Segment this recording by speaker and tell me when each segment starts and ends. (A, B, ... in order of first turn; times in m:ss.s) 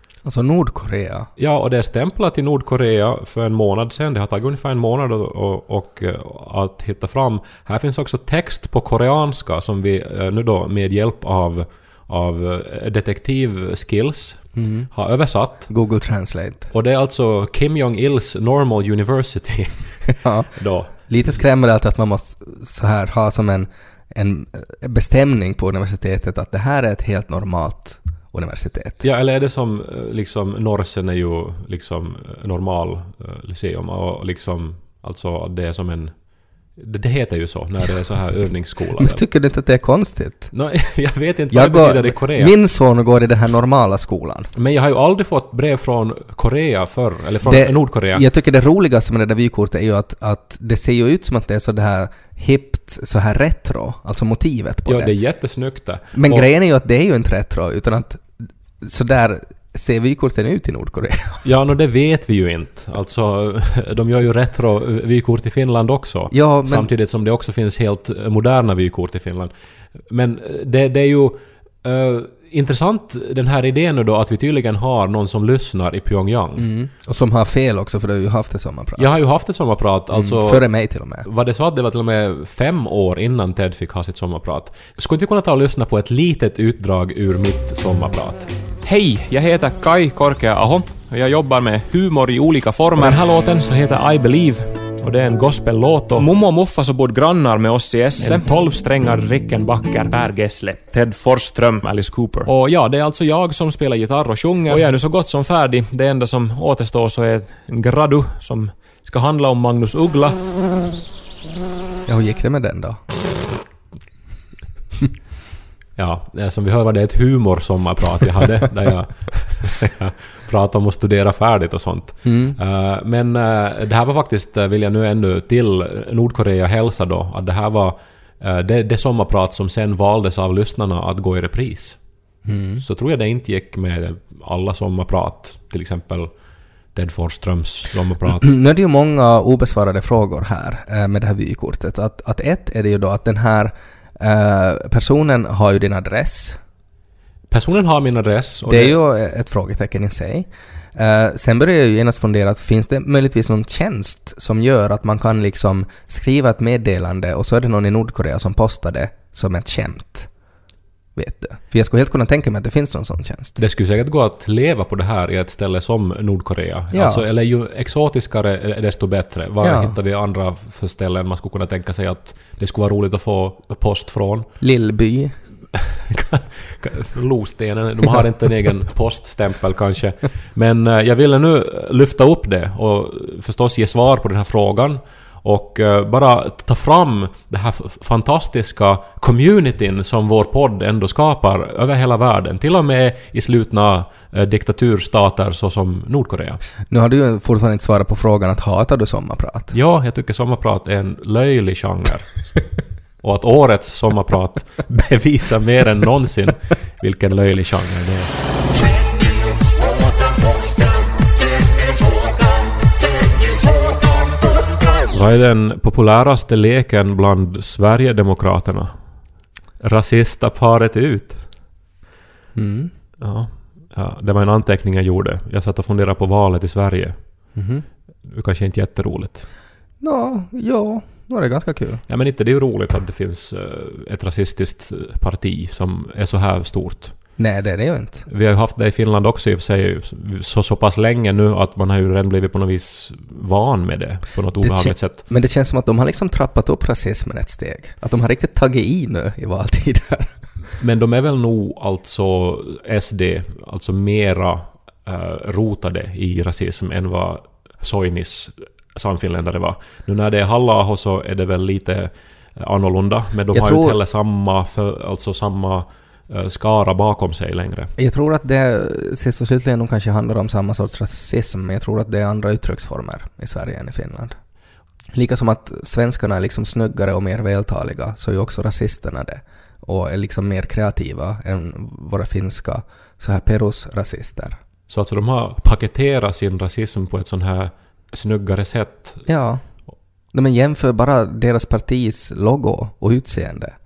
0:00.2-0:01.3 A
0:01.4-0:15.7 B
0:14.5-0:14.9 A
0:15.7-0:16.7 A
0:16.7-0:21.0 B
0:20.2-0:29.0 A
0:29.0-0:39.2 B
0:39.0-0:40.5 A
0:40.5-0:42.5 B
0:41.5-0:44.5 A
0:44.5-0:48.2 B
0:47.4-0:55.1 A
0:54.9-0:56.5 B
0:56.1-1:01.4 A
1:01.4-1:09.5 B
1:06.3-1:06.9 A
1:10.1-1:16.7 B
1:16.6-1:19.1 A
1:19.0-1:20.6 B
1:20.1-1:21.2 A
1:21.2-1:28.5 B
1:28.8-1:50.4 C
1:38.2-1:38.4 B
1:52.1-1:53.0 A
1:56.0-2:12.0 B
2:02.2-2:02.6 A
2:12.4-2:12.8 A
2:12.8-2:16.3 B
2:16.9-2:18.5 B
2:18.4-2:26.6 A
2:27.5-2:29.0 B
2:28.6-2:40.3 A
2:41.2-2:43.6 A
2:43.6-2:54.5 B
2:46.9-2:47.2 A
2:49.6-2:49.9 A
2:54.6-2:55.4 A
2:55.7-3:16.6 B
3:16.9-3:19.7 A
3:19.7-3:22.4 B
3:23.2-3:28.3 B
3:35.1-3:39.0 B
3:39.8-3:41.5 B
3:42.5-3:42.9 A
3:43.2-3:47.3 B
3:47.5-3:47.8 A
3:48.2-3:49.4 B
3:50.0-3:52.0 A
3:52.1-3:57.2 B
3:57.4-3:58.2 A
3:58.3-4:05.2 B
4:04.6-4:10.3 A
4:10.8-4:27.9 B
4:23.5-4:24.0 A
4:28.0-4:34.4 A
4:35.1-4:44.6 A
4:44.9-4:49.2 B
4:49.2-4:49.6 A
4:50.3-4:53.7 A